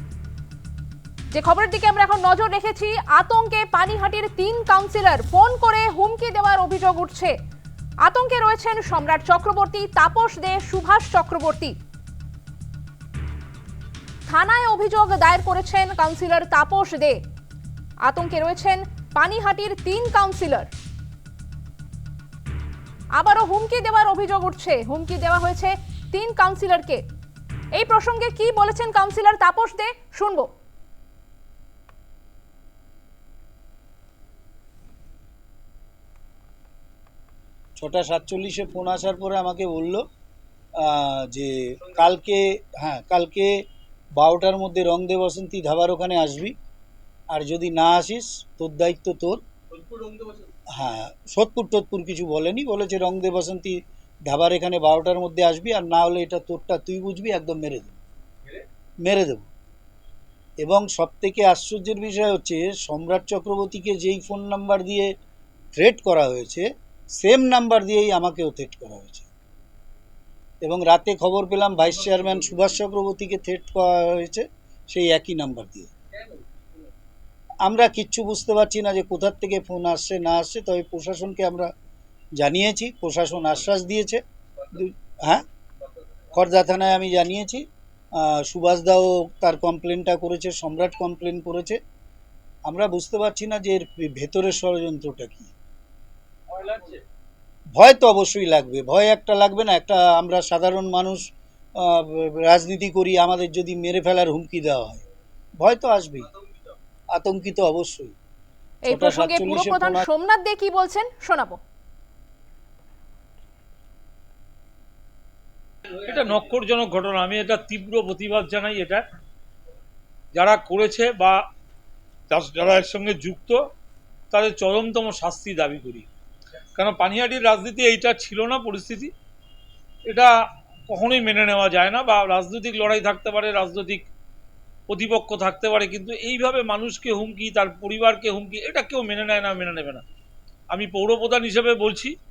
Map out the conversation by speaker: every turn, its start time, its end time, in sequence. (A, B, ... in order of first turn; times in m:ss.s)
0:01.3-0:07.3 A
0:08.0-0:11.7 A
0:14.3-0:17.2 A
0:18.0-0:20.7 A
0:23.2-0:27.0 A
0:27.7-0:30.5 A
0:37.8-0:40.0 B
0:40.8-0:43.6 B
0:44.2-0:46.5 B
0:47.3-0:49.4 B
0:49.8-0:50.1 C
0:50.7-0:58.0 B
0:59.0-0:59.4 B
1:00.6-1:05.1 B
1:05.8-1:09.3 B
1:10.6-1:15.9 B
1:17.6-1:21.7 B
1:22.4-1:24.2 B
1:24.7-1:25.4 B
1:26.3-1:27.6 B
1:28.2-1:31.8 B
1:32.6-1:35.5 B
1:37.8-1:41.2 B
1:41.8-1:45.0 B
1:45.6-1:46.3 B
1:47.1-1:48.1 B
1:48.8-1:51.6 A
1:48.9-1:50.0 B
1:56.0-1:59.0 C
2:00.3-2:01.4 C
2:02.3-2:03.6 C
2:04.3-2:06.1 C
2:06.7-2:09.1 C
2:10.9-2:14.0 C
2:14.9-2:20.0 C
2:20.7-2:22.2 C